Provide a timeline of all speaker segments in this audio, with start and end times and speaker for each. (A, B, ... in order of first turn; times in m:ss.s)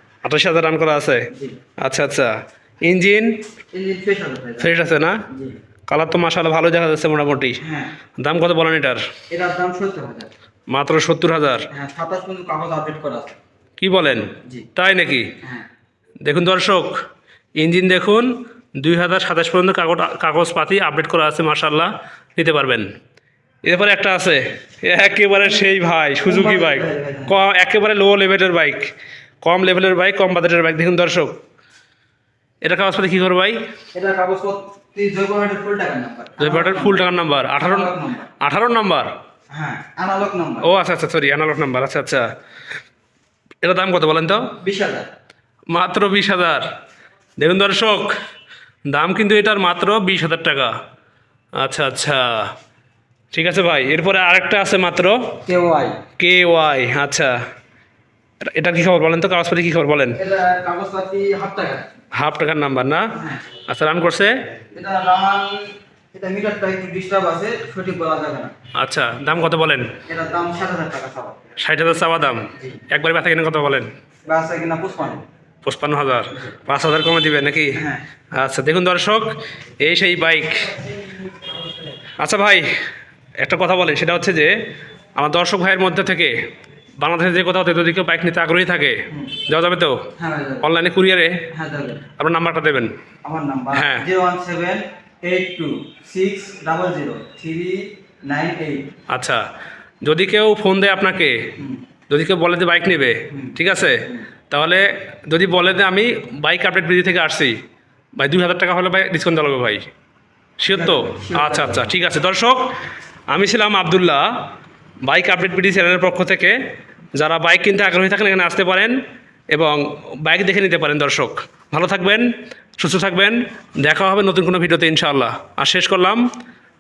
0:00.2-0:01.3 A
0:01.8-0:03.4 A
0:03.7-0:04.7 B
0:04.6-0:05.2 A
0:05.3-0:05.6 B
0:05.9-0:07.6 A
0:07.6-0:07.9 B
0:08.2-0:09.0 A
0:09.3-0:10.3 B
0:10.7-0:11.7 A
0:11.7-0:13.4 B
0:13.8-0:15.3 A
0:16.2-0:17.0 A
0:17.6-0:22.9 A
0:23.6-0:28.9 A
0:26.2-0:27.3 B
0:29.4-0:31.4 A
0:32.6-0:33.6 A
0:33.9-0:37.0 B
0:36.4-0:39.1 A
0:37.6-0:38.3 B
0:39.5-0:40.7 B
0:40.6-0:42.3 A
0:43.6-0:44.5 A
0:44.6-0:45.1 B
0:45.7-0:46.7 A
0:47.4-0:48.1 A
0:48.9-0:50.7 A
0:51.6-0:52.5 A
0:53.3-0:55.2 A
0:55.5-0:56.0 B
0:56.2-0:57.3 A
0:58.5-1:00.2 A
1:00.2-1:01.8 B
1:02.1-1:03.1 A
1:03.2-1:03.4 B
1:03.7-1:04.4 A
1:04.7-1:08.5 B
1:08.8-1:09.9 A
1:10.1-1:11.4 B
1:11.6-1:13.9 A
1:14.3-1:15.2 B
1:15.6-1:17.8 A
1:17.8-1:18.0 B
1:18.3-1:20.8 A
1:22.2-1:22.7 A
1:23.4-1:24.6 A
1:25.2-1:26.4 A
1:27.0-1:30.0 A
1:30.2-1:30.7 B
1:30.6-1:31.4 A
1:31.5-1:32.0 B
1:32.2-1:32.9 A
1:33.2-1:38.9 B
1:33.7-1:34.1 A
1:39.1-1:39.4 A
1:40.0-1:41.5 A
1:42.1-1:47.6 A
1:43.3-1:43.6 B
1:48.2-1:49.9 A
1:50.6-1:52.7 A
1:50.7-1:51.9 B
1:53.3-1:54.5 A
1:55.0-1:56.6 A
1:57.2-1:59.0 A
1:59.5-2:06.2 A